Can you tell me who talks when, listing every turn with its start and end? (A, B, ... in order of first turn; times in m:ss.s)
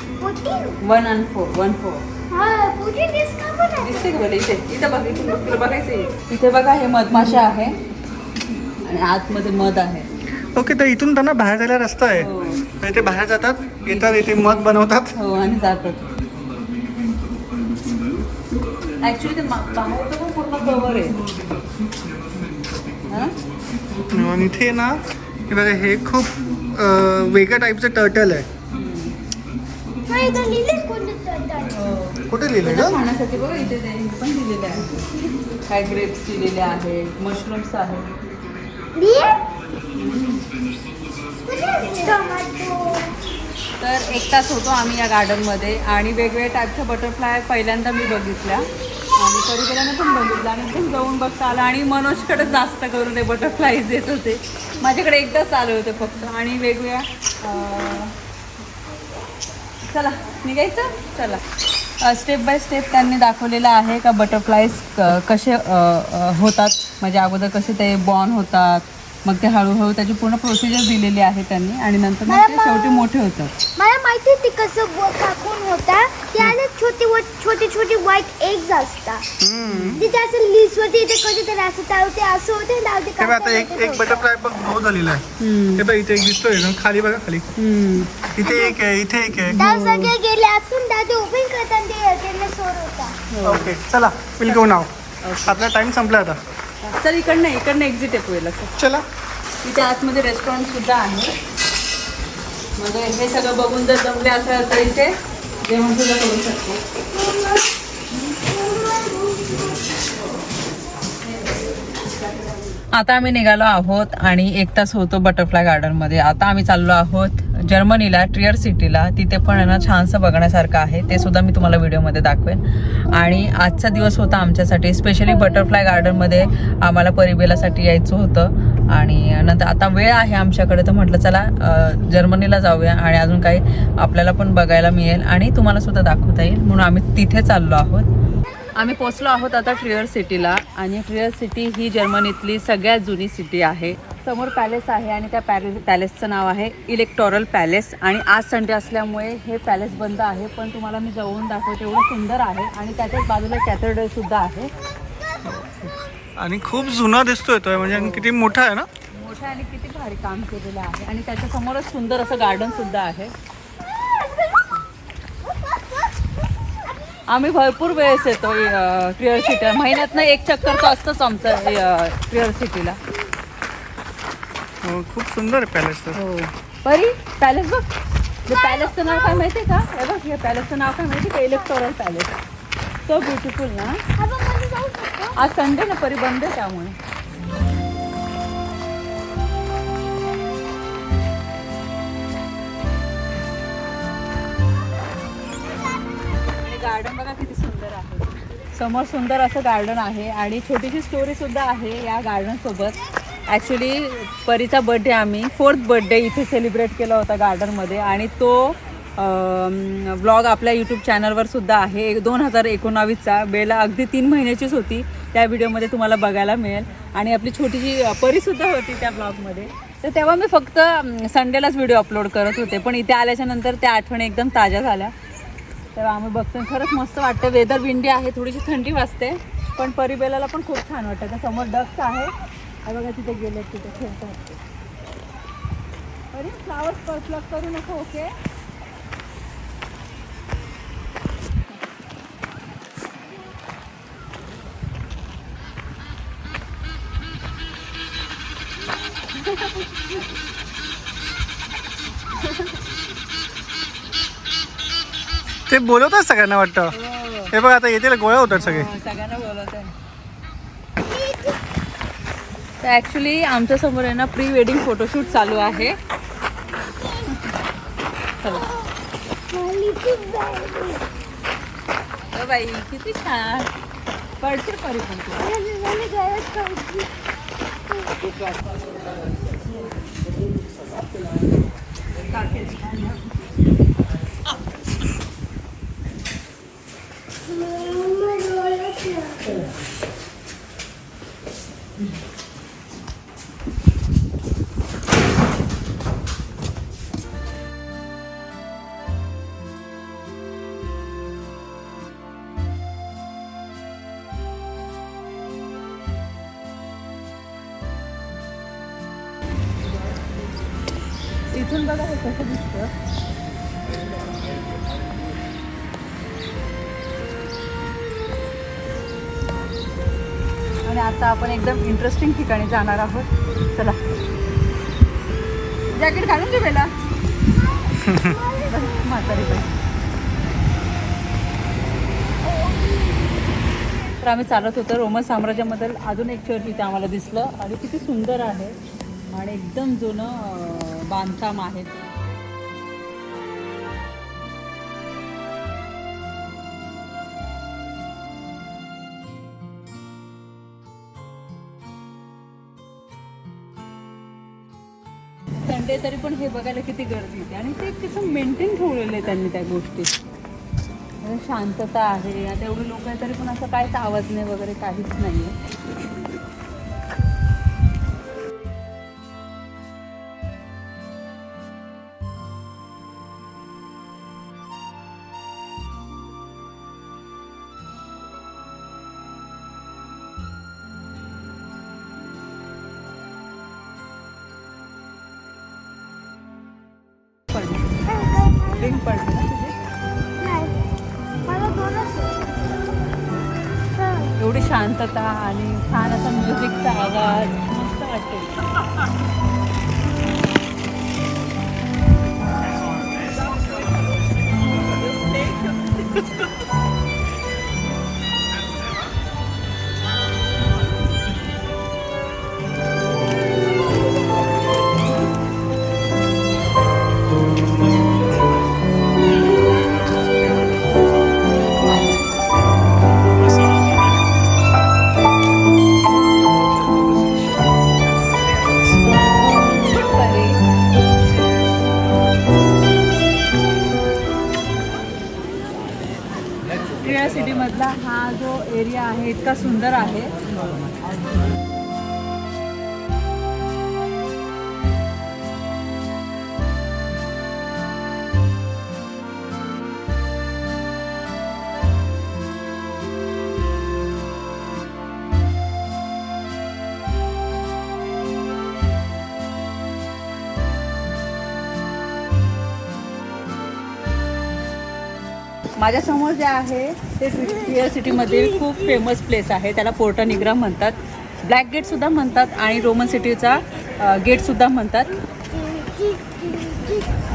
0:00.2-0:00.8 A
0:00.8-0:02.0 B
0:02.3-0:04.2 A
0:03.8-0:07.8 B
0:05.2-0:05.8 A
0:08.8-0:10.1 B
0:10.5-0:15.1 C
0:12.2-0:12.6 B
0:13.9-0:14.5 B
0:15.1-0:16.0 B
0:19.0-0:21.2 B
0:23.1-0:23.3 B
0:24.1-0:28.5 C
0:28.7-0:29.2 B
0:30.1-0:31.9 A
0:31.7-0:35.1 B
0:32.3-0:33.0 C
0:35.7-0:38.1 B
0:39.0-0:39.4 A
0:39.9-0:40.4 B
0:41.4-0:43.1 A
0:43.8-0:58.2 B
0:59.9-1:01.4 B
1:02.0-1:13.5 B
1:12.3-1:13.1 A
1:13.8-1:19.2 A
1:19.4-1:20.0 C
1:19.7-1:20.0 B
1:20.0-1:24.2 A
1:23.2-1:25.2 C
1:25.4-1:25.9 B
1:25.7-1:27.5 C
1:27.6-1:28.3 B
1:28.3-1:29.6 C
1:28.4-1:28.7 A
1:29.5-1:30.1 B
1:29.6-1:33.2 A
1:33.3-1:33.7 B
1:33.4-1:34.9 C
1:35.2-1:35.6 B
1:35.4-1:36.4 C
1:36.8-1:38.7 B
1:38.8-1:39.0 C
1:39.6-1:41.3 B
1:42.8-1:46.8 B
1:47.1-1:47.6 A
1:48.4-1:49.7 A
1:52.9-2:18.1 B
2:18.8-2:34.7 B
2:35.4-2:38.9 C
2:37.9-2:38.3 B
2:39.1-2:43.3 B
2:47.3-2:53.0 B
2:54.8-2:56.2 C
2:56.1-2:57.8 B
2:58.5-3:02.3 B
2:58.5-2:59.4 A
3:03.1-3:04.0 B
3:04.2-3:05.5 A
3:05.4-3:07.0 B
3:16.6-3:23.0 B
3:23.5-3:45.1 B
3:45.9-3:52.3 B
3:52.8-3:54.5 B
3:56.3-3:58.3 B
4:09.4-4:09.9 B
4:15.7-4:16.9 C
4:16.9-4:17.5 B
4:17.5-4:18.9 C
4:18.6-4:19.9 B
4:21.0-4:21.6 A
4:22.8-4:26.0 B
4:28.4-4:28.6 B
4:28.6-4:28.8 A
4:29.5-4:31.0 A
4:32.3-4:33.7 B
4:34.4-4:35.5 B
4:35.4-4:37.1 A
4:42.2-4:43.3 B
4:47.4-4:49.6 A
5:11.5-5:12.9 B
5:20.8-5:24.0 B
5:25.9-5:26.9 B
5:27.7-5:29.6 A
5:28.0-5:28.4 C
5:28.6-5:29.7 B
5:32.6-5:32.8 A
5:34.2-5:38.8 B
5:39.3-5:42.1 B
5:55.6-6:00.1 B
6:01.2-6:05.6 B
6:27.5-6:27.9 B
6:28.1-6:29.0 A
6:28.8-6:29.7 B
6:30.4-6:30.8 A
6:31.4-6:32.4 A
6:33.9-6:34.3 A
6:34.4-6:38.5 B
6:45.2-6:45.8 B
7:09.9-7:10.6 B
7:17.0-7:20.5 B
7:45.8-7:55.1 B
7:48.3-7:48.7 A
7:55.5-7:57.1 A